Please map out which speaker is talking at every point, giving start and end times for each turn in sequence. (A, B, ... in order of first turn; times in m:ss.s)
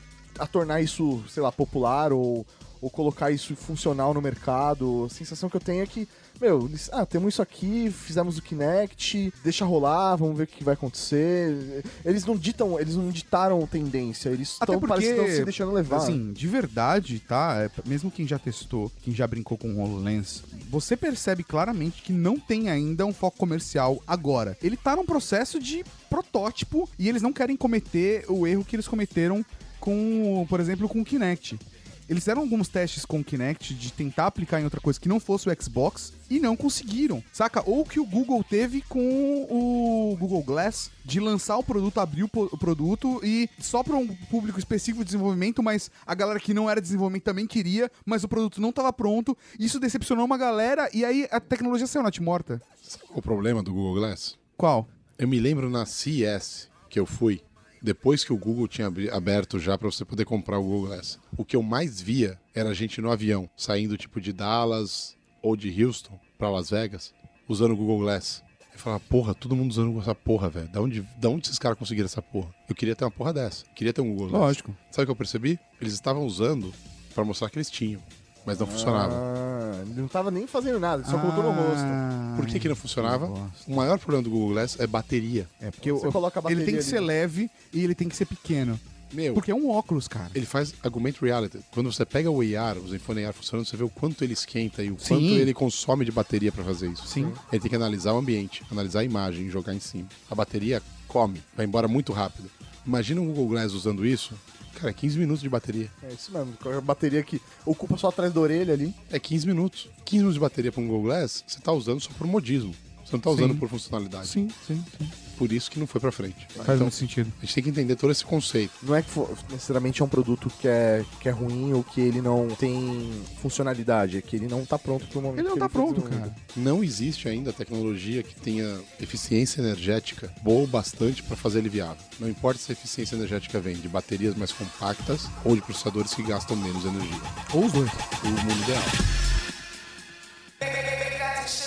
0:00.4-0:16.2 A
0:14.6-0:52.6 B
0:52.8-0:54.4 C
0:54.6-0:54.9 B
0:55.2-1:19.2 C
1:14.3-1:14.8 B
1:18.6-1:22.0 A
1:21.0-1:23.8 B
1:22.3-1:25.5 C
1:25.6-1:28.8 B
1:25.8-1:27.1 A
1:29.1-1:29.4 C
1:29.3-1:30.4 B
1:30.3-1:45.9 C
1:35.0-1:35.5 B
1:37.0-1:37.4 B
1:46.0-1:49.0 A
1:49.1-1:54.4 C
1:53.3-1:53.6 B
1:54.2-1:55.1 B
1:55.3-1:58.7 C
1:56.6-1:57.3 B
1:58.8-2:06.3 A
2:05.3-2:06.4 B
2:06.5-2:17.4 C
2:17.5-2:18.0 B
2:18.2-2:19.0 C